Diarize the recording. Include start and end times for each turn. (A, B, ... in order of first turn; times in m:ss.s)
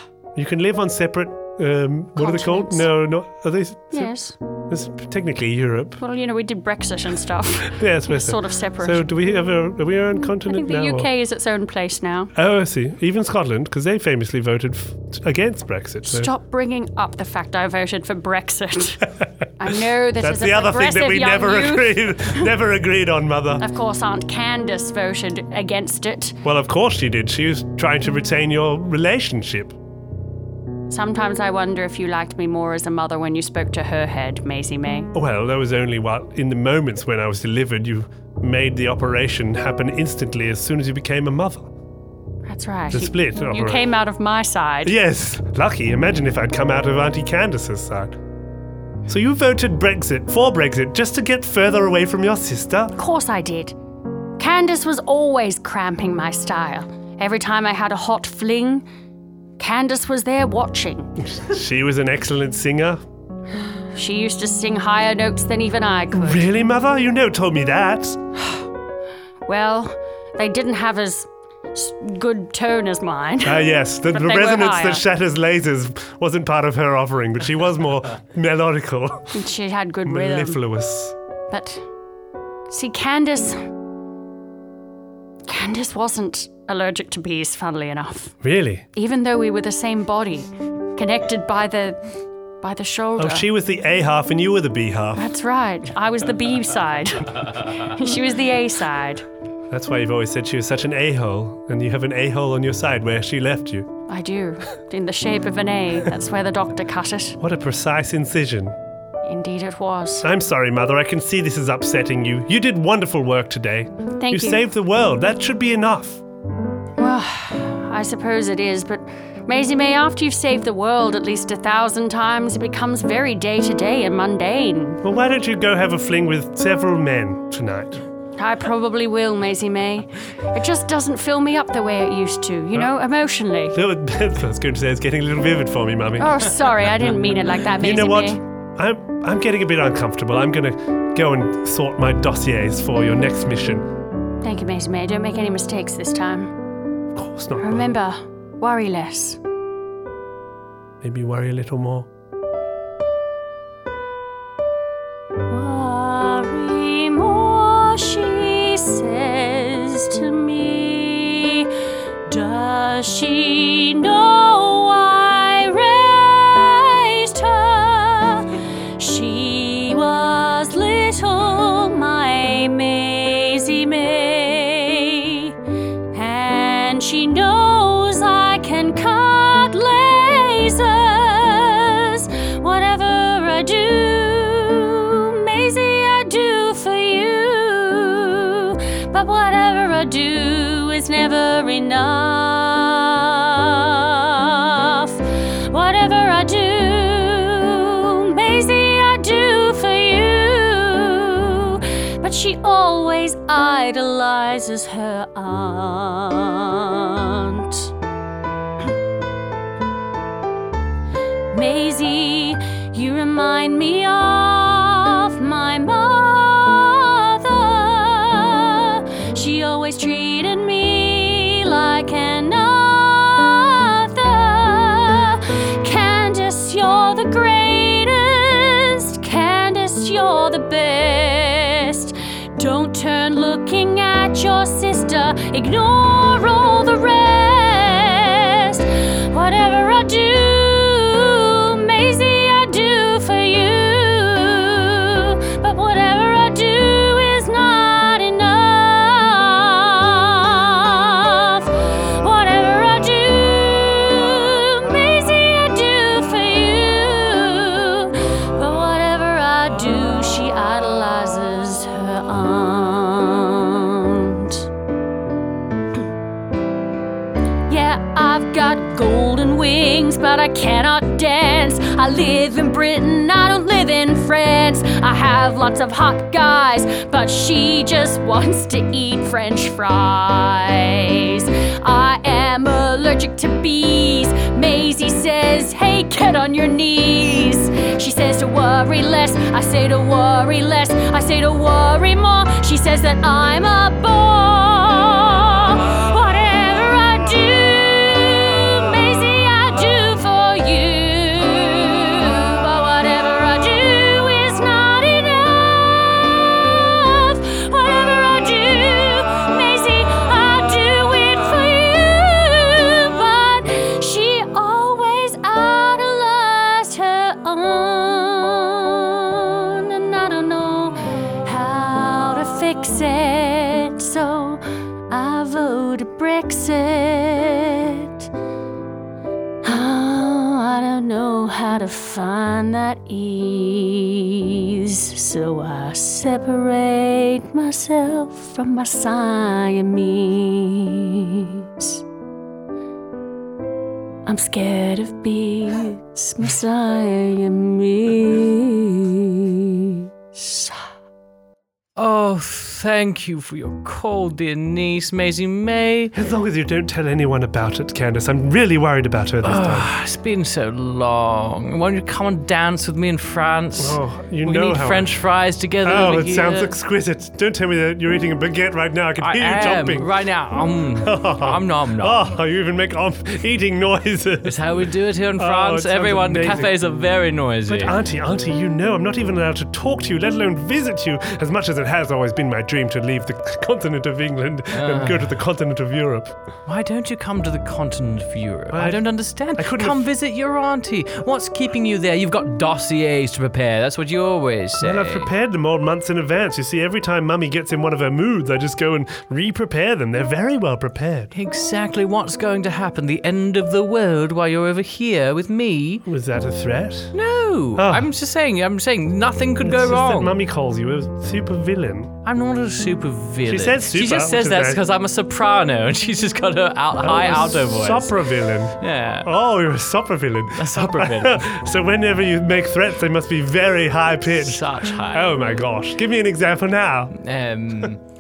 0:00.4-0:04.1 A
0:02.2-0:02.9 B
0:03.9-0:04.4 B
0:04.7-0:06.0 A
0:06.0-0:09.1 B
0:07.7-0:11.1 A
0:10.2-0:12.3 B
0:12.4-0:16.3 A
0:16.1-0:19.0 B
0:19.6-0:22.5 B
0:20.2-0:23.6 A
0:23.6-0:26.4 B
0:26.4-0:29.8 A
0:30.9-0:35.1 B
0:35.1-0:41.7 A
0:42.5-0:45.0 B
0:42.9-0:43.9 A
0:44.8-0:48.2 A
0:49.1-0:52.9 A
0:53.0-0:53.8 B
0:54.4-0:58.9 B
0:59.6-1:01.1 B
1:01.2-1:03.0 A
1:04.0-1:06.5 B
1:06.1-1:08.2 A
1:09.5-1:15.0 B
1:13.4-1:19.4 A
1:19.3-1:20.6 B
1:20.1-1:21.2 A
1:21.5-1:21.8 B
1:22.7-1:23.6 B
1:25.5-1:28.4 B
1:28.4-1:28.8 A
1:29.0-1:32.0 B
1:32.6-1:33.5 B
1:33.2-1:35.3 A
1:35.2-1:39.2 B
1:39.7-1:43.9 A
1:44.1-1:47.4 B
1:47.4-1:48.8 A
1:49.2-1:50.3 B
1:50.2-1:56.2 A
1:54.2-1:54.6 B
1:57.0-2:05.0 B
2:05.0-2:08.0 A
2:08.4-2:13.8 B
2:13.7-2:16.5 A
2:16.2-2:18.4 B
2:17.7-2:23.9 A
2:24.4-2:26.6 B
2:27.1-2:27.9 A
2:27.6-2:29.4 B
2:31.0-2:32.1 A
2:35.5-2:41.7 B
2:42.3-2:55.5 B
2:56.1-3:27.9 B
3:31.5-4:24.6 B
4:27.7-5:28.3 B
5:29.6-5:42.0 B
5:44.3-5:50.8 B
5:52.0-5:56.1 C
5:56.1-5:59.9 A
5:59.4-6:06.7 C
6:03.8-6:05.1 A
6:05.8-6:10.1 A
6:09.2-6:12.3 C
6:11.0-6:14.5 A
6:14.4-6:17.9 C
6:15.4-6:16.7 A
6:17.7-6:26.4 A
6:24.7-6:25.3 C
6:26.7-6:35.3 C
6:28.7-6:30.1 A
6:34.8-6:41.3 A
6:41.3-6:46.0 C
6:46.1-6:47.1 A
6:47.1-6:50.4 C
6:47.8-6:48.1 A
6:49.6-6:52.1 A
6:52.2-6:58.2 C
6:53.5-6:54.8 A
6:57.0-7:07.1 A
6:58.8-6:59.3 C
7:00.6-7:01.5 C
7:04.4-7:05.4 C
7:07.2-7:08.0 C